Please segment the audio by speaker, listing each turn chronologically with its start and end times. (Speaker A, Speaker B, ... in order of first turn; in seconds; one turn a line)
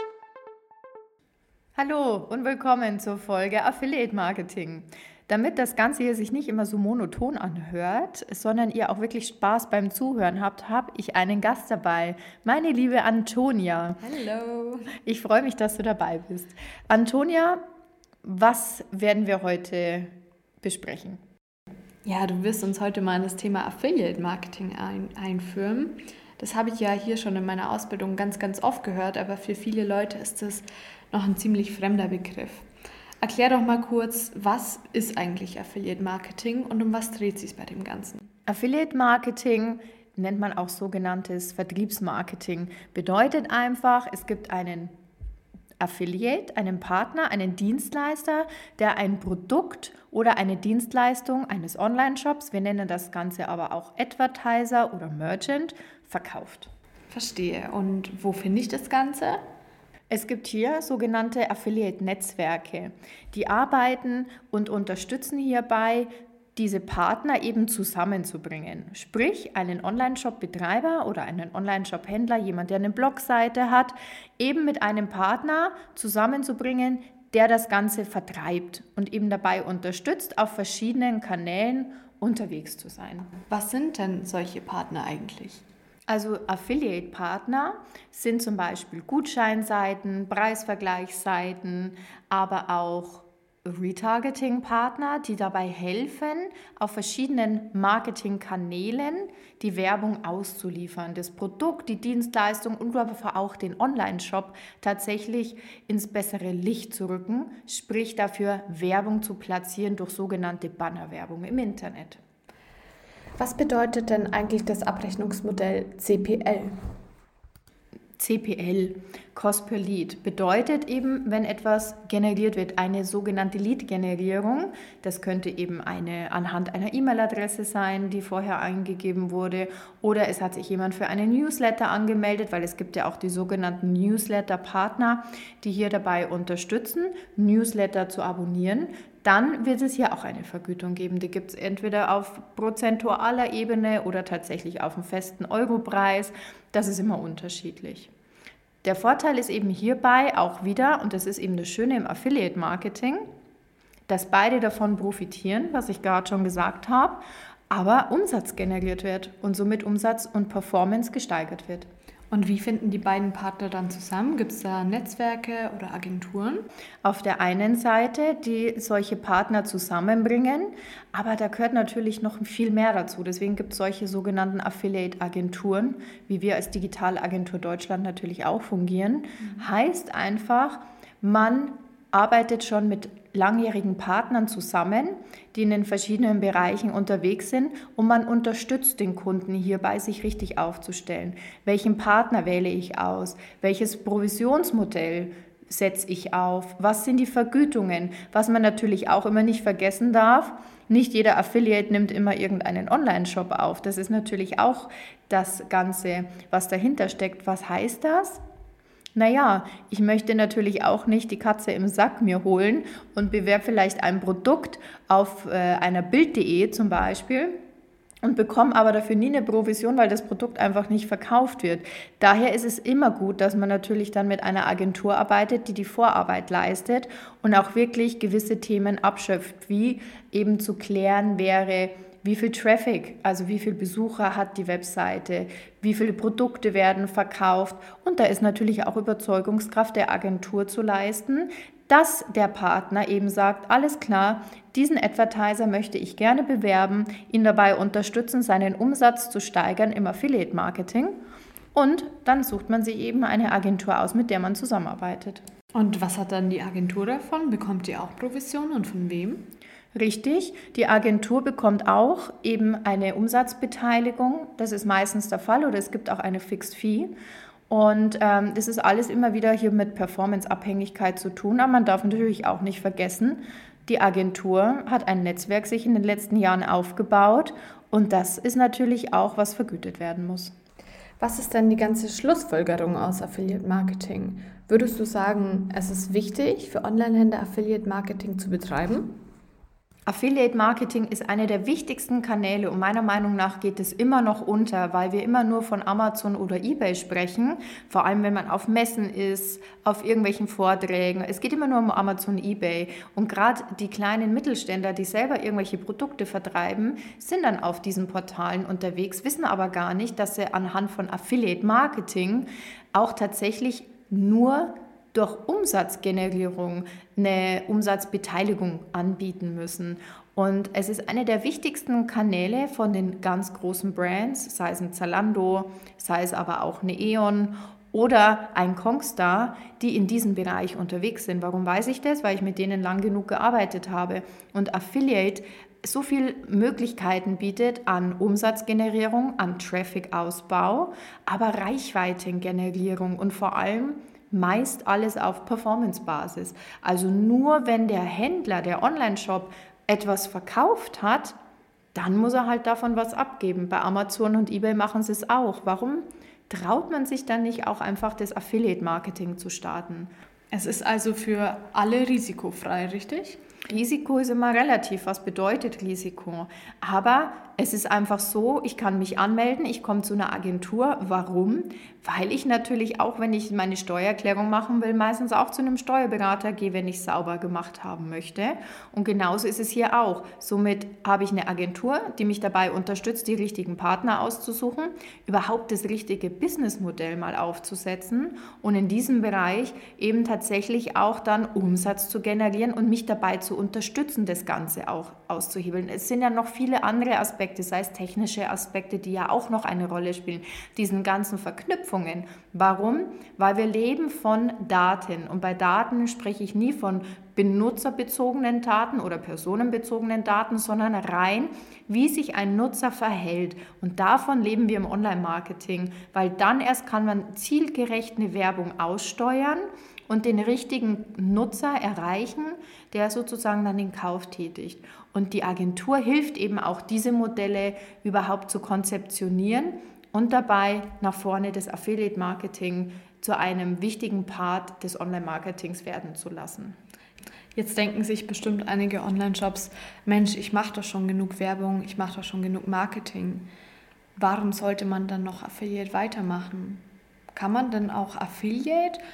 Speaker A: 1.8-14.0
Speaker B: 14.0-14.9
Speaker A: 15.0-17.6
Speaker A: 18.2-21.2
Speaker B: 22.0-32.6
Speaker B: 33.2-38.2
Speaker A: 38.5-44.9
Speaker A: 45.8-56.7
Speaker B: 57.1-59.4
Speaker A: 60.1-83.3
Speaker B: 83.5-85.6
Speaker A: 86.1-112.2
Speaker B: 113.4-116.8
Speaker A: 118.2-148.1
Speaker A: 148.8-153.3
Speaker A: 154.1-161.9
Speaker B: 162.3-166.7
Speaker A: 167.0-208.4
Speaker A: 209.1-217.6
Speaker A: 218.2-251.2
Speaker A: 251.7-255.4
Speaker B: 255.7-259.5
Speaker A: 259.9-267.1
Speaker A: 267.7-280.5
Speaker B: 281.2-289.2
Speaker A: 290.1-351.4
Speaker A: 351.9-360.1
Speaker B: 360.5-363.4
Speaker A: 363.7-436.8
Speaker B: 437.6-443.5
Speaker B: 444.1-446.8
Speaker B: 447.3-449.0